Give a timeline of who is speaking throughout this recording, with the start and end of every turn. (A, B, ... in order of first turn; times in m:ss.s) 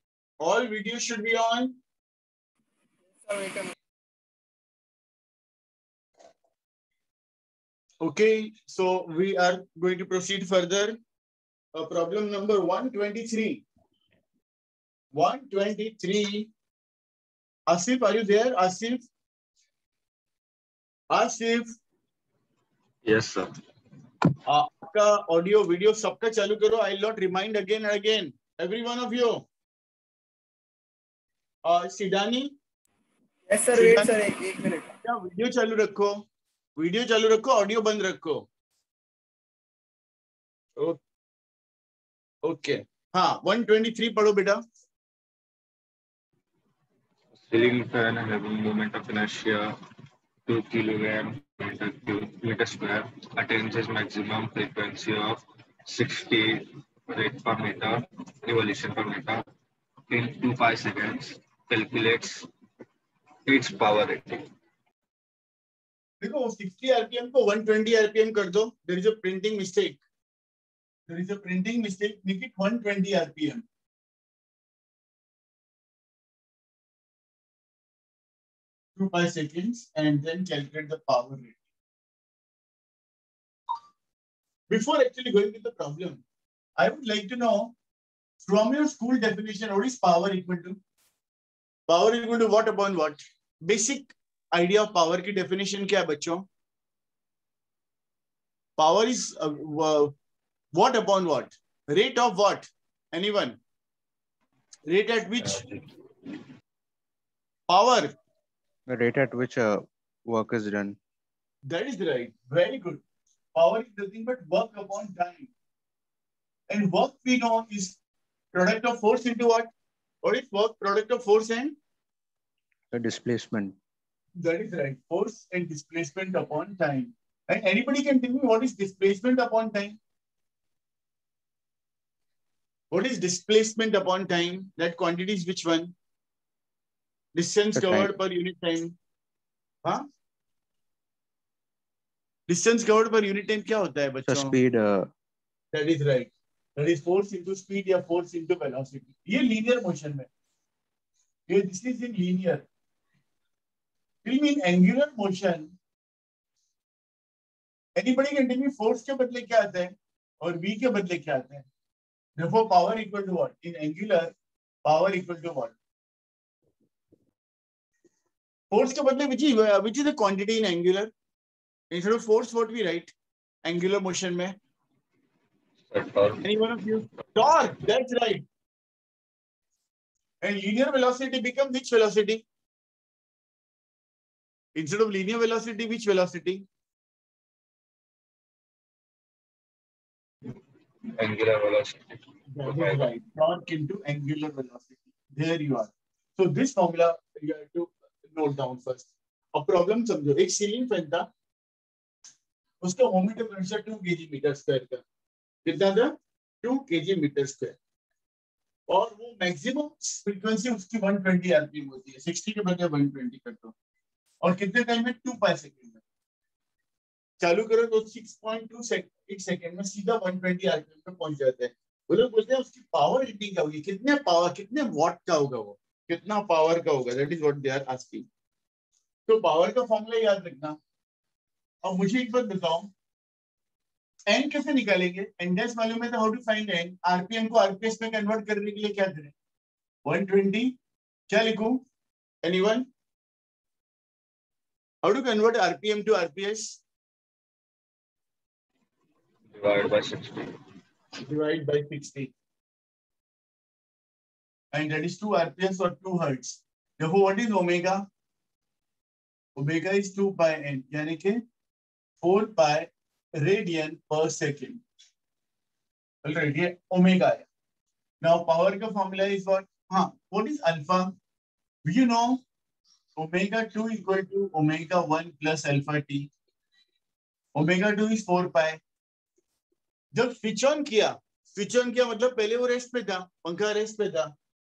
0:00.4-0:01.8 A
0:03.1-0:03.7 B
0:08.0-0:11.0 A
0:11.7-0:13.6 A
0:15.1-0:16.5 A
0:17.7-0:19.1 A
0:21.1-0:21.7 A
0:23.0-0:23.5 C
0:24.5-0:29.5 A
0:31.6-0:32.5 A
0:33.5-0:34.9 B
0:33.7-0:34.2 A
0:35.0-0:36.2 A
0:36.8-0:38.5 A
0:42.4-0:44.6 A
0:47.4-0:49.8 C
0:50.5-0:59.4 C
1:00.1-1:02.5 C
1:03.5-1:04.5 C
1:06.2-1:10.0 A
1:11.1-1:13.6 A
1:19.0-1:21.6 A
1:24.7-1:26.2 A
1:26.8-1:27.8 A
1:28.4-1:30.8 A
1:31.9-1:36.5 A
1:38.8-1:40.2 A
1:40.7-1:43.6 A
1:44.9-1:45.6 A
1:45.4-1:45.9 C
1:47.7-1:48.2 A
1:48.9-1:51.0 D
1:51.7-1:53.0 A
1:53.6-1:55.5 A
1:56.7-1:58.0 A
1:58.5-1:59.7 A
2:00.2-2:01.8 A
2:02.9-2:03.8 D
2:04.4-2:10.0 A
2:12.9-2:16.0 A
2:17.4-2:19.0 A
2:17.8-2:18.1 D
2:22.5-2:24.6 A
2:24.3-2:25.1 D
2:25.7-2:30.3 A
2:31.5-2:32.7 A
2:34.2-2:35.7 A
2:38.0-2:41.7 A
2:42.4-2:44.3 A
2:44.8-2:45.8 A
2:48.7-2:51.1 A
2:51.9-2:53.1 A
2:53.6-2:54.6 A
2:55.9-2:56.5 C
2:56.4-2:58.4 A
3:00.4-3:02.4 A
3:04.8-3:06.6 A
3:11.1-3:13.1 C
3:12.5-3:21.3 A
3:22.8-3:25.0 A
3:25.6-3:27.8 A
3:28.9-3:33.7 A
3:34.4-3:36.0 A
3:37.4-3:48.3 A
3:49.3-3:50.8 A
3:51.8-3:52.9 A
3:54.3-3:59.3 A
4:00.0-4:00.8 A
4:01.3-4:01.8 A
4:02.4-4:02.9 A
4:05.0-4:06.8 A
4:09.5-4:10.6 C
4:11.3-4:12.3 A
4:14.7-4:18.1 A
4:19.6-4:21.4 A
4:22.2-4:24.8 A
4:26.2-4:27.5 A
4:28.2-4:31.2 A
4:31.8-4:32.4 A
4:33.2-4:36.3 A
4:37.6-4:38.8 A
4:40.1-4:44.3 A